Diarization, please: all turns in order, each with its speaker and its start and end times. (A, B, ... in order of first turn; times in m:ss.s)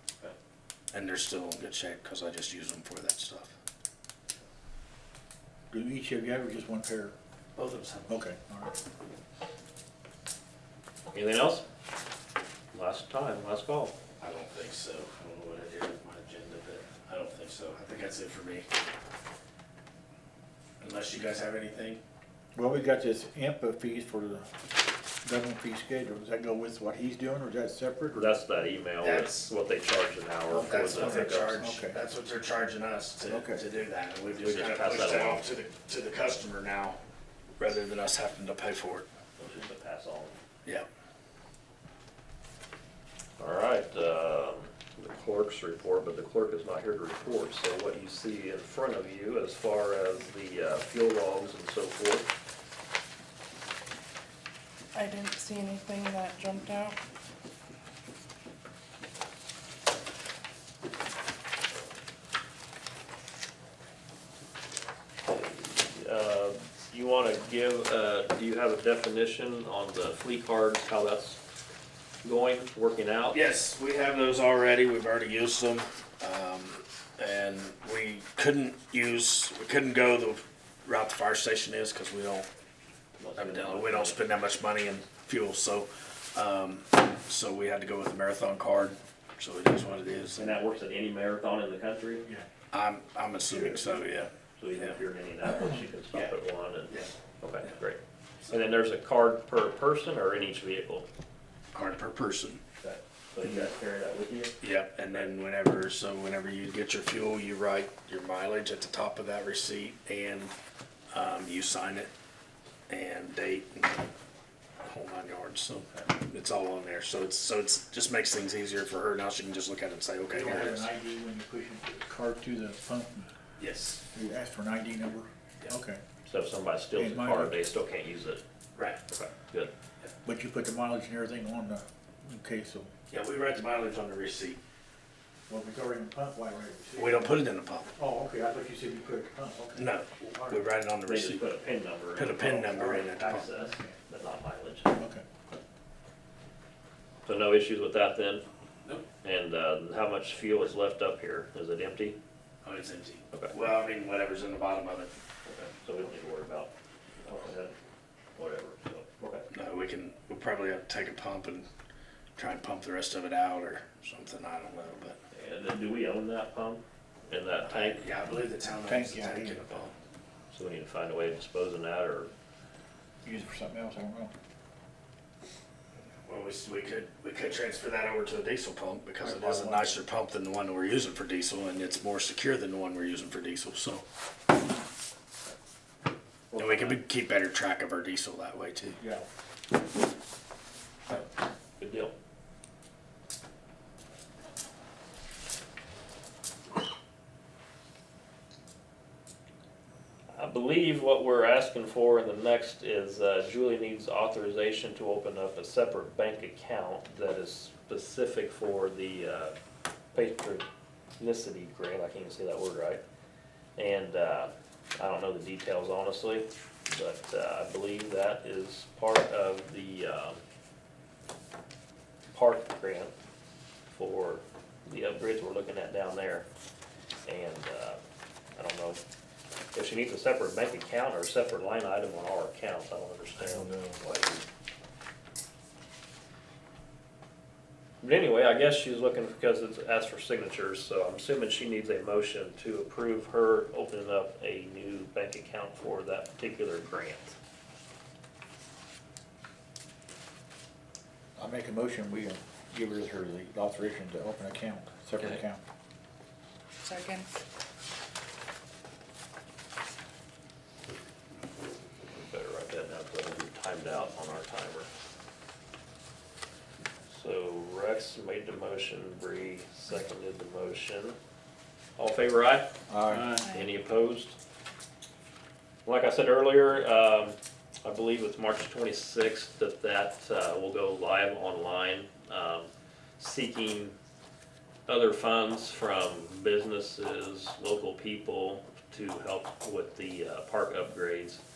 0:00.9-0:03.5 A
0:05.7-0:07.2 B
0:07.6-0:08.2 A
0:08.1-0:08.7 B
0:11.1-0:11.6 C
0:12.7-0:14.0 C
0:14.2-0:18.7 A
0:20.8-0:22.0 A
0:22.6-0:24.5 B
0:25.2-0:28.3 B
0:28.1-0:31.6 C
0:29.0-0:29.5 A
0:30.5-0:37.0 A
0:30.8-0:32.0 B
0:33.3-0:33.6 B
0:34.4-0:35.4 C
0:37.6-0:39.1 A
0:39.4-0:40.3 C
0:43.4-0:52.3 C
0:54.9-0:56.9 D
1:05.2-1:11.4 C
1:12.2-1:13.4 C
1:13.3-1:22.5 A
1:23.2-1:24.3 C
1:23.3-1:30.6 A
1:30.4-1:32.3 C
1:32.7-1:35.0 A
1:33.5-1:34.0 C
1:34.6-1:41.0 C
1:41.7-1:42.6 A
1:42.8-1:44.5 C
1:44.6-1:50.5 A
1:51.1-1:52.1 A
1:52.9-1:54.0 A
1:54.8-2:00.9 A
2:00.3-2:03.3 B
2:03.6-2:04.0 A
2:04.1-2:06.0 B
2:06.2-2:08.4 C
2:07.0-2:07.6 B
2:09.1-2:09.7 C
2:10.2-2:12.9 B
2:13.1-2:14.6 A
2:15.5-2:17.4 B
2:17.0-2:17.9 A
2:18.0-2:20.6 B
2:19.7-2:21.4 A
2:21.0-2:25.0 C
2:22.1-2:23.5 A
2:23.5-2:24.0 B
2:25.0-2:25.2 B
2:27.2-2:28.4 C
2:29.1-2:32.2 C
2:32.6-2:35.1 A
2:35.5-2:36.7 C
2:37.2-2:37.7 C
2:38.3-2:39.5 C
2:39.5-2:41.6 A
2:42.4-2:45.2 A
2:45.3-2:48.0 C
2:47.6-2:49.9 A
2:48.8-2:49.7 B
2:50.5-2:52.3 C
2:53.2-2:54.3 B
2:56.2-3:04.0 A
2:59.2-2:59.9 B
3:06.5-3:07.0 C
3:06.6-3:09.0 A
3:09.0-3:09.2 B
3:11.8-3:12.1 C
3:20.3-3:29.5 C
3:30.1-3:30.6 C
3:31.2-3:33.0 C
3:33.8-3:40.4 C
3:42.3-3:43.1 C
3:43.9-3:46.4 C
3:47.2-3:48.0 C
3:48.6-3:49.0 C
3:49.7-3:54.4 C
3:53.4-3:54.0 A
3:58.0-4:07.3 C
4:11.4-4:15.6 B
4:16.8-4:17.4 D
4:22.1-4:24.9 C
4:27.1-4:31.2 C
4:32.0-4:32.7 C
4:32.9-4:33.4 B
4:33.3-4:33.7 D
4:33.4-4:34.4 C
4:35.8-4:42.7 C
4:43.2-4:43.9 C
4:44.9-4:51.4 C